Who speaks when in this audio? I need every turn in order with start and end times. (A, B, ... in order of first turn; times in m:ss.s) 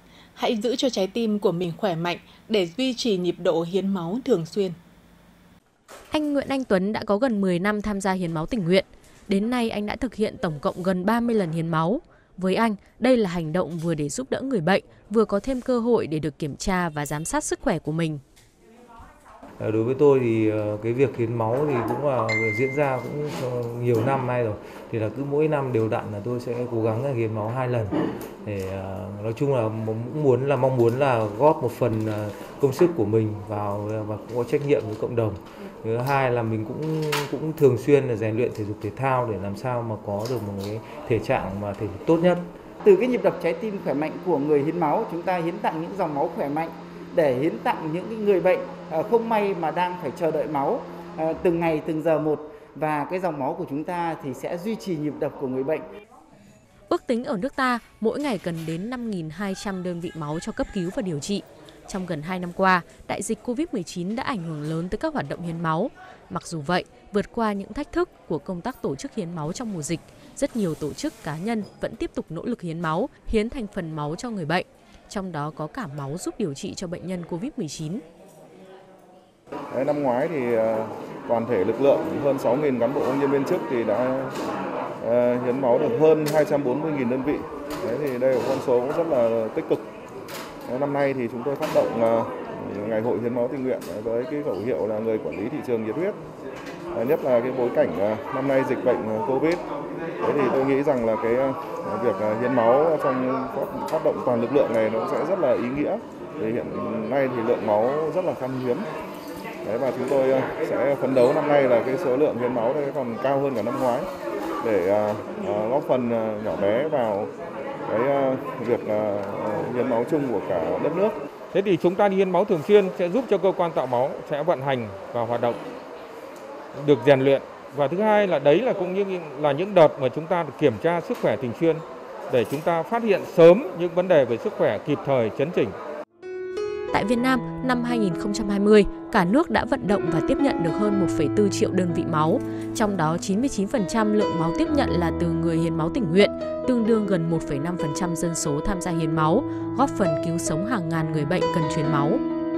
0:00.4-0:04.8 A
0:06.1-0:18.2 B
0:19.6-0:42.4 C
0:42.8-0:55.9 D
0:56.9-1:18.0 B
1:19.7-1:24.3 E
1:25.0-1:29.8 E
1:30.7-1:36.2 E
1:36.9-1:39.6 E
1:40.2-1:48.9 E
1:49.6-1:54.1 E
1:54.6-1:57.3 E
1:57.9-2:01.1 E
2:01.5-2:05.6 F
2:06.8-2:15.8 F
2:16.9-2:32.2 B